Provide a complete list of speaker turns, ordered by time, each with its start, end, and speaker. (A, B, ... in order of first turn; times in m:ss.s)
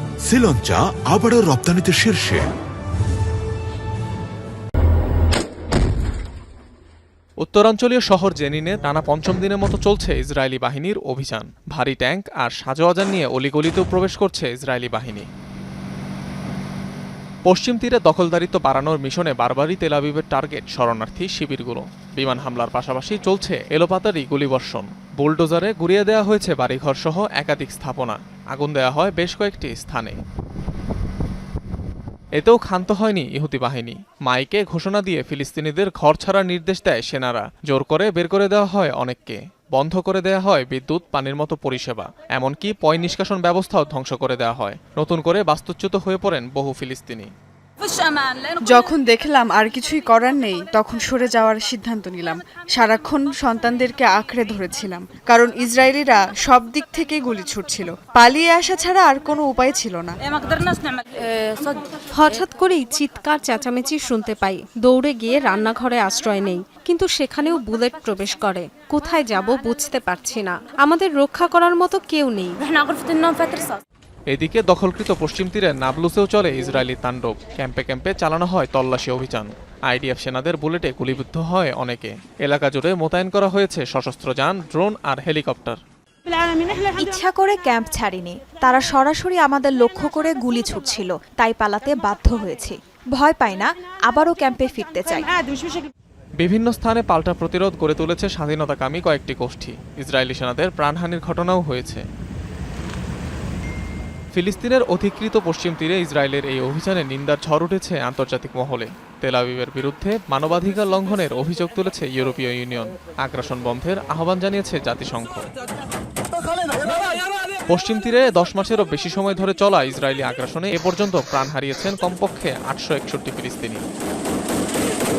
0:00.3-0:02.4 A
0:07.4-0:15.3 B
0:17.5-0:30.2 B
0:32.4-0:47.3 B
0:48.6-1:00.2 C
1:02.2-1:12.6 D
1:14.3-1:25.8 B
1:27.0-1:35.3 E
1:36.4-1:42.0 B
1:44.3-1:55.4 B
1:57.7-2:03.8 B